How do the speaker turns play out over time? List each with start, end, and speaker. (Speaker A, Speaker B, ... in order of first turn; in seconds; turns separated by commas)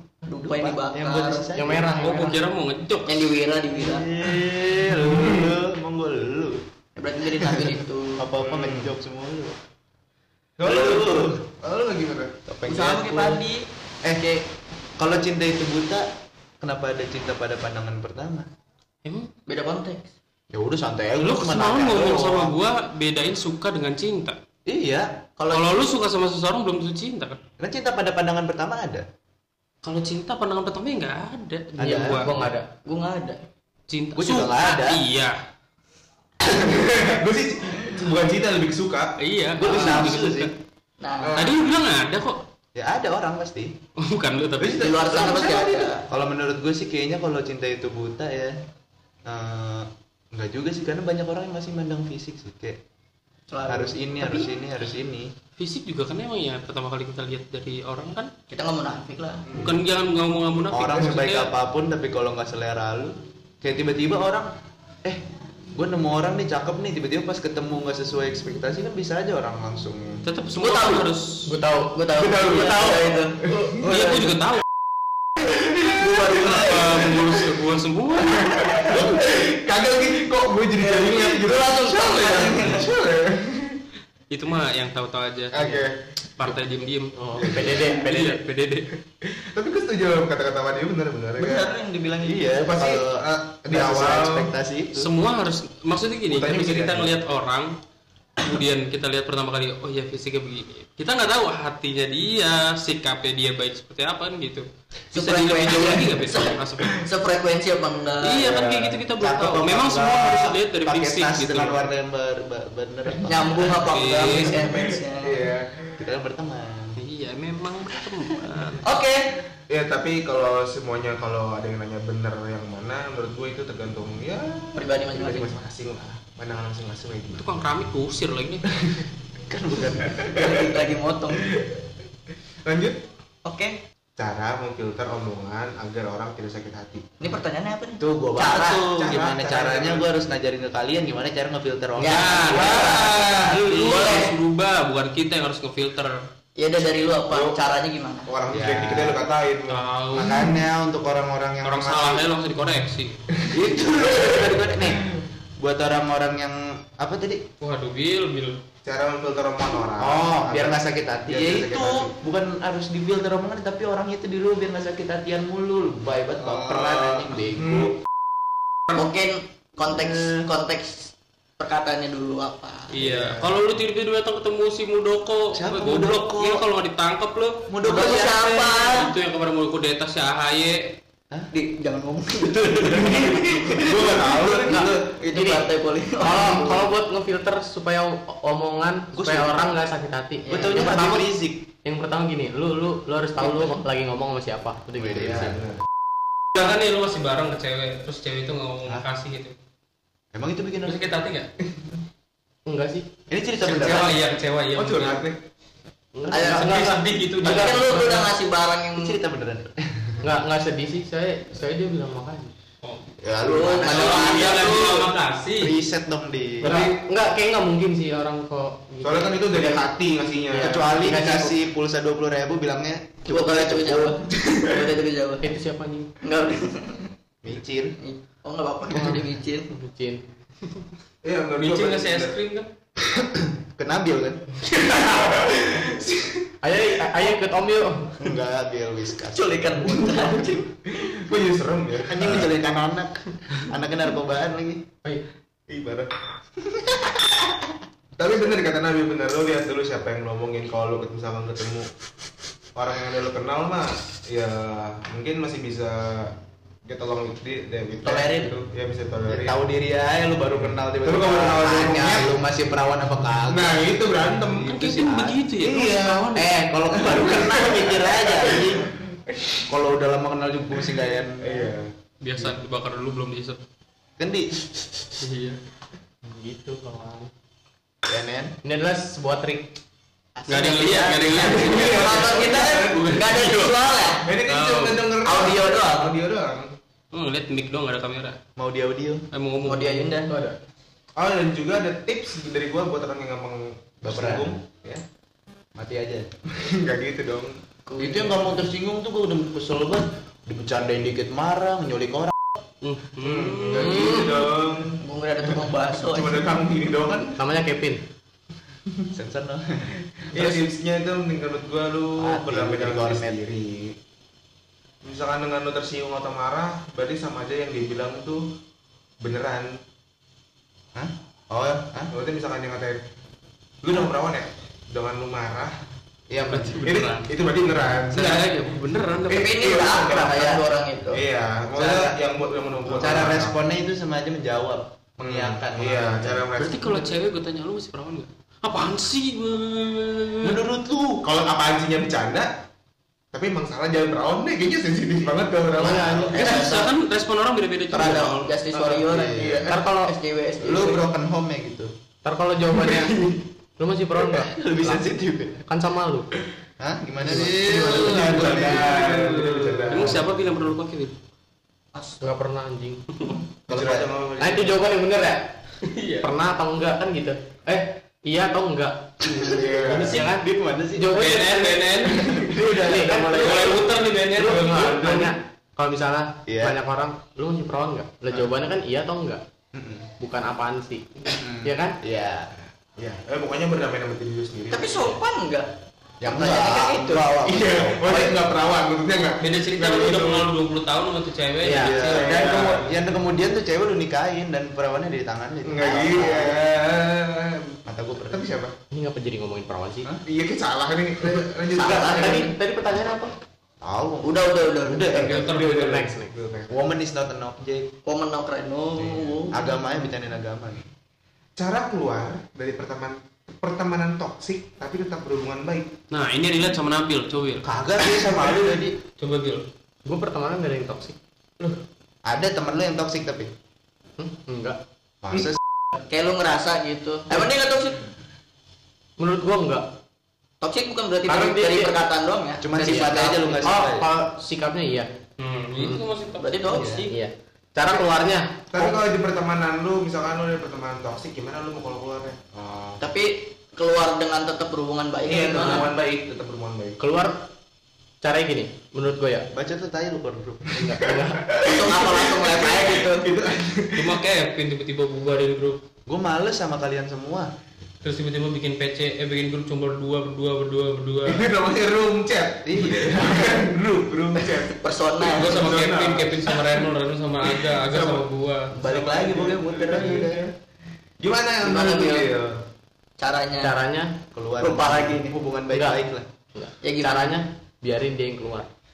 Speaker A: 0.2-1.5, Speaker B: 0.4-2.0, Speaker C: 1.6-2.4, Speaker D: 2.0-3.4, Speaker A: 3.0-4.1, Speaker B: 3.7-6.6, Speaker E: 5.0-5.5, Speaker A: 7.0-8.3, Speaker B: 8.2-9.6, Speaker E: 8.4-8.9, Speaker E: 10.6-12.4, Speaker B: 10.6-11.4, Speaker B: 12.5-13.5, Speaker A: 12.7-14.4, Speaker B: 14.0-14.3, Speaker B: 15.0-16.1, Speaker B: 16.6-18.5, Speaker D: 19.1-19.3, Speaker A: 19.5-20.1, Speaker B: 20.5-22.6, Speaker D: 21.2-24.4, Speaker B: 24.7-25.2, Speaker A: 25.4-25.9, Speaker D: 25.5-27.4, Speaker B: 27.6-29.1, Speaker D: 29.8-32.5, Speaker B: 31.8-32.3, Speaker C: 31.8-32.7, Speaker A: 32.8-33.4, Speaker D: 33.9-35.4, Speaker B: 34.2-35.0, Speaker E: 36.4-39.1, Speaker D: 39.2-40.5, Speaker B: 39.6-40.5, Speaker A: 41.0-41.5, Speaker E: 41.2-41.5, Speaker D: 41.4-42.4, Speaker B: 42.8-43.8, Speaker D: 44.0-44.9, Speaker E: 44.7-45.7, Speaker A: 44.8-46.0, Speaker B: 44.8-48.6, Speaker B: 49.3-52.8, Speaker A: 53.5-54.5, Speaker B: 53.7-55.3, Speaker D: 55.6-58.3, Speaker A: 58.5-59.5, Speaker E: 59.5-59.8, Speaker D: 59.6-61.5, Speaker B: 60.7-64.5, Speaker B: 65.0-70.2, Speaker D: 70.2-71.5, Speaker A: 70.6-71.1, Speaker C: 71.5-72.0, Speaker A: 71.9-74.4, Speaker E: 72.2-73.8, Speaker D: 73.8-74.7, Speaker E: 75.5-77.6, Speaker A: 75.9-77.1, Speaker D: 76.4-78.9, Speaker E: 78.2-83.8, Speaker B: 78.9-79.2, Speaker A: 80.8-82.9, Speaker D: 84.3-85.7, Speaker E: 85.5-86.0, Speaker D: 86.4-88.9, Speaker C: 87.2-88.4, Speaker E: 87.4-87.9, Speaker E: 89.2-91.7, Speaker A: 91.4-92.6, Speaker B: 92.2-95.1, Speaker E: 92.6-94.5, Speaker D: 94.9-97.8, Speaker E: 96.3-97.2, Speaker D: 98.4-107.0, Speaker A: 105.1-108.5, Speaker D: 108.2-111.8, Speaker E: 108.5-109.0, Speaker B: 109.2-113.7, Speaker A: 113.2-115.5, Speaker D: 113.8-114.7, Speaker E: 114.7-116.0, Speaker B: 116.0-117.0, Speaker D: 117.0-118.9, Speaker A: 118.8-119.4, Speaker E: 119.7-127.5, Speaker A: 124.8-125.5, Speaker D: 127.3-128.8, Speaker E: 128.8-129.0, Speaker B: 129.5-130.4, Speaker E: 130.1-130.5, Speaker A: 130.3-131.5, Speaker E: 131.4-131.8, Speaker E: 132.6-133.0, Speaker A: 133.4-133.8, Speaker E: 134.2-137.2, Speaker A: 137.2-138.9, Speaker B: 138.0-143.1, Speaker E: 138.9-140.1, Speaker A: 142.0-144.3, Speaker D: 142.0-146.2, Speaker E: 142.7-143.3, Speaker A: 146.6-148.3, Speaker E: 147.3-147.6, Speaker E: 148.3-149.9, Speaker B: 148.5-149.2, Speaker D: 149.7-150.5, Speaker B: 150.1-152.3, Speaker D: 151.6-153.2, Speaker B: 153.5-155.0, Speaker E: 153.5-154.5, Speaker B: 155.6-157.4, Speaker D: 157.6-158.6, Speaker E: 158.8-162.1, Speaker B: 160.0-167.9, Speaker E: 166.4-168.0, Speaker A: 168.9-172.9, Speaker B: 169.8-170.4, Speaker D: 172.9-181.0, Speaker E: 173.1-173.6, Speaker B: 175.5-176.7, Speaker B: 177.7-178.5, Speaker A: 177.8-179.1, Speaker A: 181.5-186.8, Speaker E: 183.0-184.9, Speaker C: 184.5-191.3, Speaker B: 189.1-189.7, Speaker A: 190.4-191.1, Speaker B: 190.5-191.7, Speaker C: 191.8-195.6, Speaker A: 193.4-193.8, Speaker B: 195.0-195.6, Speaker E: 195.3-195.8, Speaker D: 196.5-199.6, Speaker B: 200.3-201.1, Speaker D: 200.8-201.5, Speaker C: 202.7-203.1, Speaker B: 203.3-204.2, Speaker D: 203.6-205.2, Speaker E: 204.8-205.4, Speaker C: 206.2-208.3, Speaker A: 206.3-206.9, Speaker D: 206.3-208.1, Speaker A: 207.4-209.2, Speaker B: 209.0-210.2, Speaker C: 210.2-212.5, Speaker D: 212.8-213.2, Speaker B: 213.2-214.8, Speaker A: 213.4-215.1, Speaker D: 213.8-215.8, Speaker B: 215.6-216.8, Speaker C: 216.6-219.9, Speaker E: 216.7-216.9, Speaker E: 219.0-221.2, Speaker C: 220.5-221.6, Speaker B: 220.6-224.2, Speaker A: 223.3-225.5, Speaker E: 224.4-224.7, Speaker C: 225.4-226.2, Speaker A: 226.2-227.1, Speaker B: 227.4-227.9, Speaker A: 228.0-229.7, Speaker C: 228.9-230.3, Speaker E: 231.2-232.4, Speaker D: 231.6-232.7, Speaker B: 233.6-234.5, Speaker E: 234.7-236.5, Speaker C: 236.6-238.2, Speaker B: 238.2-239.7, Speaker A: 239.3-240.8, Speaker E: 240.9-242.5, Speaker B: 242.1-244.9, Speaker E: 245.8-246.1, Speaker B: 246.7-247.4, Speaker E: 248.2-251.9, Speaker E: 252.8-259.6, Speaker A: 258.0-258.6, Speaker B: 259.3-268.9, Speaker E: 260.7-262.4, Speaker E: 263.5-266.2, Speaker D: 264.6-266.6, Speaker E: 267.0-269.7, Speaker B: 269.7-271.7, Speaker E: 271.4-272.5, Speaker D: 272.2-273.6, Speaker B: 274.2-274.6, Speaker D: 275.2-275.6, Speaker C: 276.2-277.3, Speaker B: 278.1-278.6, Speaker C: 278.6-279.8, Speaker A: 280.4-284.3, Speaker D: 280.5-283.7, Speaker E: 281.3-283.5, Speaker E: 284.2-286.7, Speaker D: 284.5-285.1, Speaker A: 285.2-286.1, Speaker D: 287.1-288.4, Speaker B: 288.6-289.2, Speaker D: 289.3-290.2, Speaker A: 289.7-290.3, Speaker C: 290.3-290.6, Speaker E: 291.2-295.0, Speaker B: 294.0-294.6, Speaker B: 295.8-296.3, Speaker E: 296.5-297.6, Speaker A: 297.9-298.5, Speaker B: 298.0-302.4, Speaker D: 302.8-304.3, Speaker E: 303.2-307.4, Speaker C: 303.7-304.5, Speaker A: 305.0-306.5, Speaker C: 307.4-308.0, Speaker B: 309.1-310.0, Speaker E: 310.3-314.0, Speaker B: 312.2-313.4, Speaker E: 315.0-318.5, Speaker E: 319.2-319.8, Speaker B: 320.9-322.1, Speaker E: 322.1-323.1, Speaker E: 323.8-325.8, Speaker B: 326.3-326.9, Speaker D: 326.5-327.3, Speaker E: 326.8-328.6, Speaker D: 328.0-329.9, Speaker A: 329.3-332.2, Speaker E: 329.3-333.6, Speaker B: 332.9-336.4, Speaker E: 335.2-337.2, Speaker D: 336.6-340.6, Speaker B: 340.4-341.2, Speaker E: 341.2-342.6, Speaker E: 343.3-346.1, Speaker C: 345.8-346.5, Speaker B: 345.9-346.7, Speaker A: 346.3-346.9, Speaker D: 346.4-348.6, Speaker A: 347.9-351.1, Speaker B: 348.7-349.7, Speaker C: 349.7-350.1, Speaker B: 350.6-351.9, Speaker C: 352.2-356.3, Speaker B: 354.3-355.6, Speaker B: 356.8-359.3, Speaker C: 357.3-359.3, Speaker E: 357.7-360.4, Speaker D: 357.7-361.2, Speaker A: 361.9-362.2, Speaker C: 362.2-363.1, Speaker B: 363.7-364.8, Speaker E: 363.7-364.3, Speaker C: 364.4-365.6, Speaker D: 365.8-366.3, Speaker C: 366.2-371.9, Speaker B: 369.3-373.9, Speaker E: 369.4-370.2, Speaker D: 371.1-372.4, Speaker C: 372.5-379.5, Speaker D: 373.3-375.1, Speaker E: 374.4-375.3, Speaker B: 376.5-376.8, Speaker B: 379.7-380.1, Speaker C: 380.2-382.0, Speaker B: 381.3-382.5, Speaker E: 383.0-385.2, Speaker A: 384.7-387.4, Speaker B: 386.2-388.6, Speaker E: 387.4-390.5, Speaker D: 389.4-392.8, Speaker C: 391.6-392.0, Speaker B: 391.7-396.6, Speaker E: 392.0-392.9, Speaker E: 395.6-398.8, Speaker B: 397.9-398.4, Speaker C: 398.9-400.1, Speaker E: 400.3-402.5, Speaker A: 401.8-402.5, Speaker C: 401.8-403.3, Speaker B: 403.8-405.5, Speaker A: 404.2-405.2, Speaker E: 405.1-406.8, Speaker D: 405.2-405.9, Speaker C: 405.5-406.4, Speaker B: 406.7-407.9, Speaker A: 408.1-409.8, Speaker B: 409.5-410.9, Speaker E: 411.6-415.9, Speaker D: 416.1-417.7, Speaker B: 417.6-419.0, Speaker D: 419.2-419.7, Speaker C: 420.1-421.2, Speaker B: 422.2-423.5, Speaker C: 424.2-424.8, Speaker B: 425.2-425.6, Speaker A: 426.0-428.1, Speaker C: 429.2-429.9, Speaker A: 430.6-433.8, Speaker C: 431.2-431.9, Speaker B: 432.6-434.1, Speaker C: 432.9-435.1, Speaker D: 435.4-436.8, Speaker C: 435.8-436.0, Speaker A: 436.4-437.1, Speaker B: 436.7-437.1, Speaker C: 437.1-438.9, Speaker E: 438.7-443.0, Speaker A: 443.0-446.0, Speaker E: 445.3-447.0, Speaker C: 447.0-447.5, Speaker C: 448.2-449.5, Speaker B: 449.5-450.8, Speaker C: 450.8-451.4, Speaker E: 451.4-454.2, Speaker A: 451.6-453.3, Speaker D: 453.9-455.8, Speaker B: 456.1-457.5, Speaker D: 458.0-461.5, Speaker E: 461.2-466.8, Speaker B: 462.6-463.7, Speaker A: 464.7-465.7, Speaker D: 465.3-468.8, Speaker E: 467.6-470.5, Speaker B: 468.7-470.4, Speaker E: 471.2-472.6, Speaker A: 471.6-472.4, Speaker A: 473.2-473.8, Speaker C: 473.6-474.2, Speaker B: 474.3-476.3, Speaker A: 474.6-475.4, Speaker C: 475.7-476.0, Speaker C: 476.6-478.7, Speaker A: 476.8-477.3